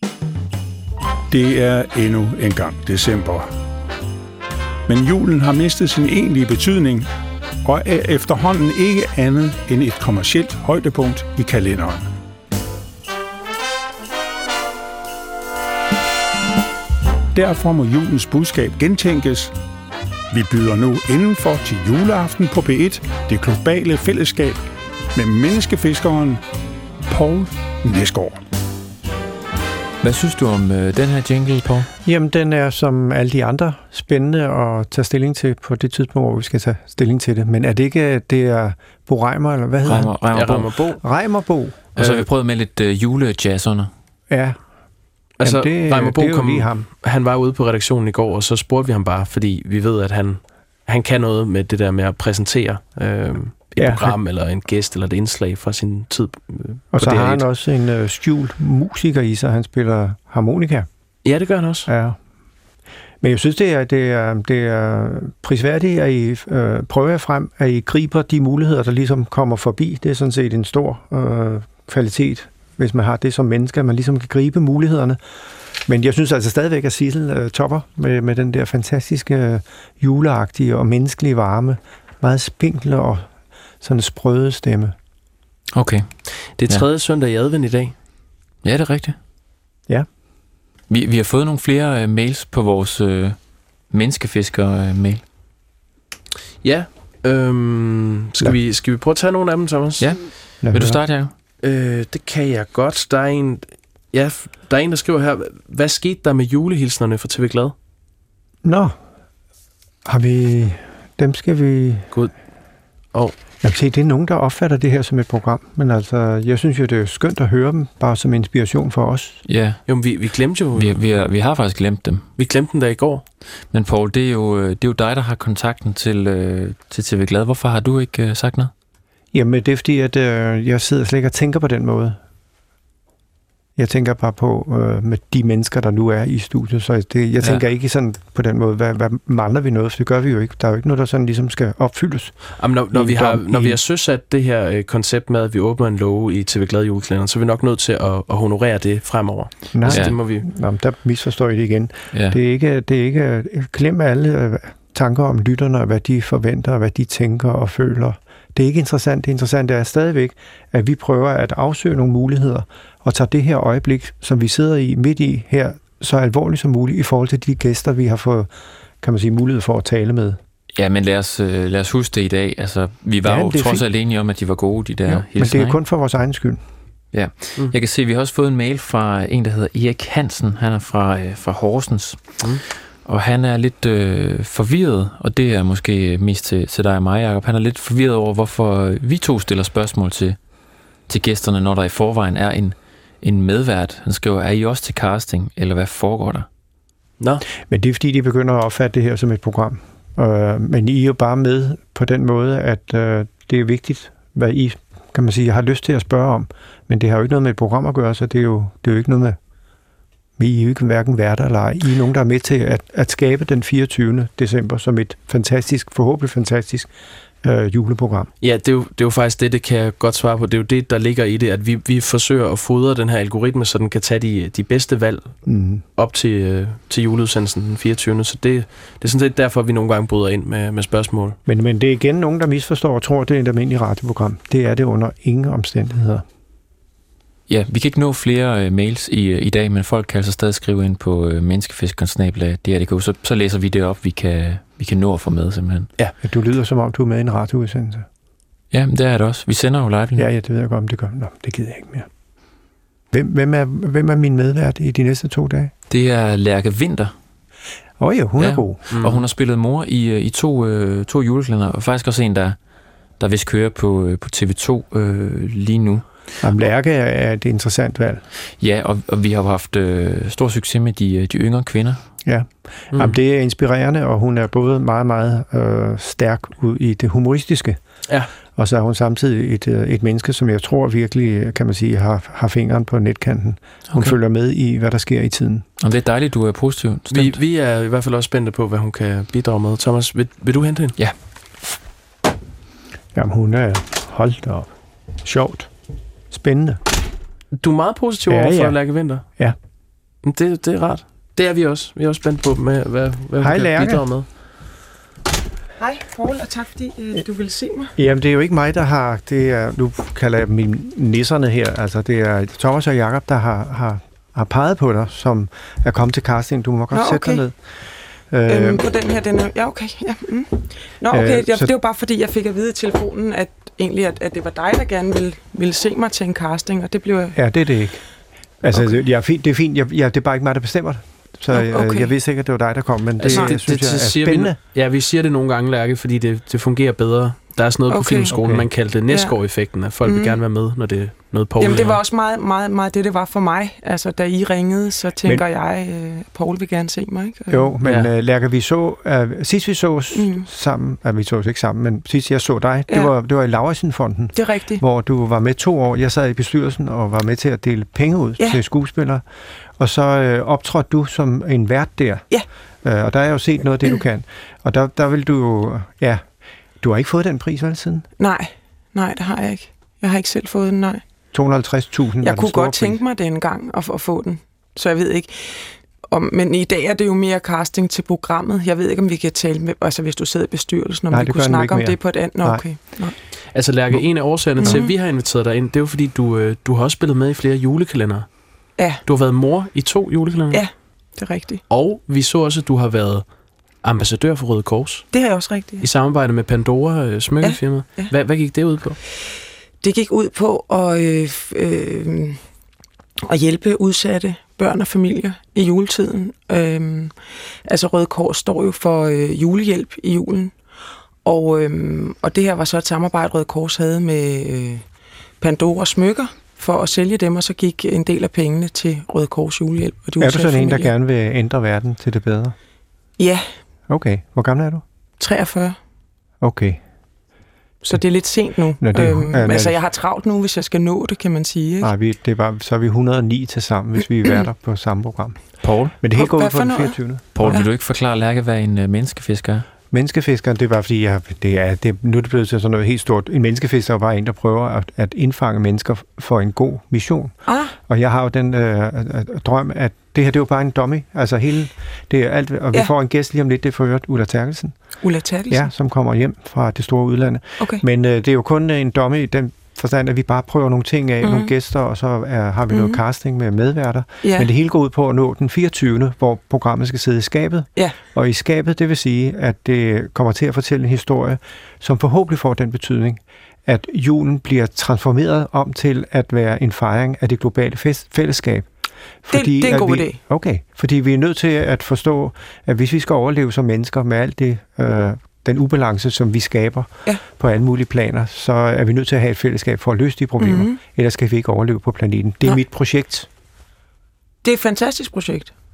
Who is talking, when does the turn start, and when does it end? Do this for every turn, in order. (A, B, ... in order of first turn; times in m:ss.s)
0:01.3-0:03.5 A
0:04.9-0:07.1 A
0:07.6-0:12.1 A
0:17.3-0:19.6 A
0:20.3-0:24.6 A
0:25.1-0:26.4 A
0:27.1-0:28.4 A
0:30.0-0:31.9 B
0:32.0-0:40.1 C
0:39.9-0:40.9 B
0:40.3-0:41.0 D
0:41.0-0:41.8 C
0:42.0-0:43.9 B
0:42.0-0:42.3 D
0:44.3-0:44.6 C
0:45.4-0:57.4 D
0:45.4-0:46.9 C
0:53.8-0:54.2 C
0:56.9-1:00.9 C
1:01.2-1:01.9 D
1:01.9-1:02.2 C
1:03.2-1:15.2 C
1:15.9-1:23.3 C
1:23.8-1:25.0 C
1:25.7-1:26.1 B
1:26.3-1:27.9 D
1:28.6-1:29.2 B
1:30.9-1:33.4 B
1:33.9-1:35.2 B
1:36.6-1:40.1 D
1:40.0-1:41.3 B
1:40.6-1:41.0 C
1:41.6-1:47.8 D
1:48.6-1:49.0 C
1:50.0-1:52.1 C
1:53.6-1:59.4 C
1:59.5-1:59.8 B
1:59.9-2:01.0 D
2:00.7-2:02.3 B
2:02.4-2:03.2 D
2:03.7-2:08.7 B
2:09.3-2:12.2 C
2:13.8-2:23.8 C
2:22.6-2:30.4 D
2:29.8-2:48.5 C
2:29.9-2:30.2 B
2:32.1-2:32.4 B
2:49.0-2:50.4 C
2:50.8-2:55.8 B
2:53.2-2:53.8 C
2:55.1-2:56.6 C
2:57.1-3:02.4 B
3:03.0-3:10.4 B
3:11.1-3:16.5 B
3:17.7-3:29.4 C
3:30.4-3:36.9 C
3:37.4-3:38.3 C
3:38.4-3:45.4 D
3:45.5-3:45.8 C
3:46.0-3:51.4 D
3:51.5-3:56.2 C
3:57.5-4:05.9 B
4:06.2-4:08.1 C
4:08.7-4:10.3 B
4:10.2-4:12.1 C
4:13.1-4:15.7 C
4:15.9-4:17.1 B
4:18.0-4:18.8 C
4:18.4-4:22.6 B
4:18.9-4:19.2 D
4:23.2-4:26.0 B
4:26.4-4:28.2 C
4:28.6-4:32.0 B
4:32.2-4:37.8 C
4:38.6-4:45.6 C
4:45.8-4:47.4 B
4:47.1-4:51.0 D
4:53.2-4:54.7 C
4:55.2-4:55.7 C
4:56.3-4:56.8 C
4:57.6-4:59.2 D
4:58.3-4:59.6 C
5:00.2-5:04.3 D
5:03.4-5:04.0 C
5:05.8-5:07.9 E
5:08.0-5:17.6 C
5:16.9-5:17.4 E
5:18.3-5:18.8 C
5:18.5-5:27.4 E
5:21.1-5:21.7 C
5:27.4-5:28.0 C
5:28.6-5:34.6 C
5:31.5-5:32.1 E
5:33.2-5:42.0 D
5:33.3-5:33.6 E
5:37.9-5:38.3 E
5:38.3-5:38.7 C
5:39.1-5:39.3 E
5:40.0-5:40.4 E
5:41.6-5:47.7 E
5:47.5-5:59.2 C
5:47.8-5:48.1 D
5:50.2-5:50.4 E
5:54.4-5:54.8 E
5:59.8-6:02.2 C
6:02.8-6:06.2 C
6:06.8-6:08.1 C
6:08.2-6:11.0 E
6:11.3-6:13.0 C
6:12.2-6:23.2 E
6:21.1-6:22.6 C
6:23.5-6:28.3 D
6:24.6-6:24.9 E
6:29.0-6:30.6 D
6:30.5-6:31.6 E
6:31.7-6:33.3 D
6:33.8-6:35.1 D
6:35.1-6:35.9 E
6:35.8-6:39.0 D
6:37.4-6:38.1 E
6:39.8-6:42.4 E
6:43.2-6:50.6 E
6:51.2-6:54.8 E
6:55.4-7:00.9 E
7:00.2-7:02.6 C
7:03.2-7:03.5 E
7:03.9-7:04.8 C
7:05.2-7:05.8 E
7:06.4-7:06.8 C
7:07.8-7:11.9 E
7:08.8-7:09.8 C
7:11.8-7:17.6 C
7:15.6-7:16.0 B
7:16.1-7:17.7 E
7:17.3-7:19.7 B
7:19.9-7:34.8 C
7:27.5-7:27.7 E
7:35.0-7:35.7 E
7:35.5-7:58.7 C
7:37.6-7:37.8 E
7:41.2-7:41.5 E
7:42.7-7:43.0 E
7:44.2-7:44.5 E
7:59.2-8:13.3 C
7:59.3-8:00.2 E
8:10.4-8:10.8 E
8:14.4-8:15.5 E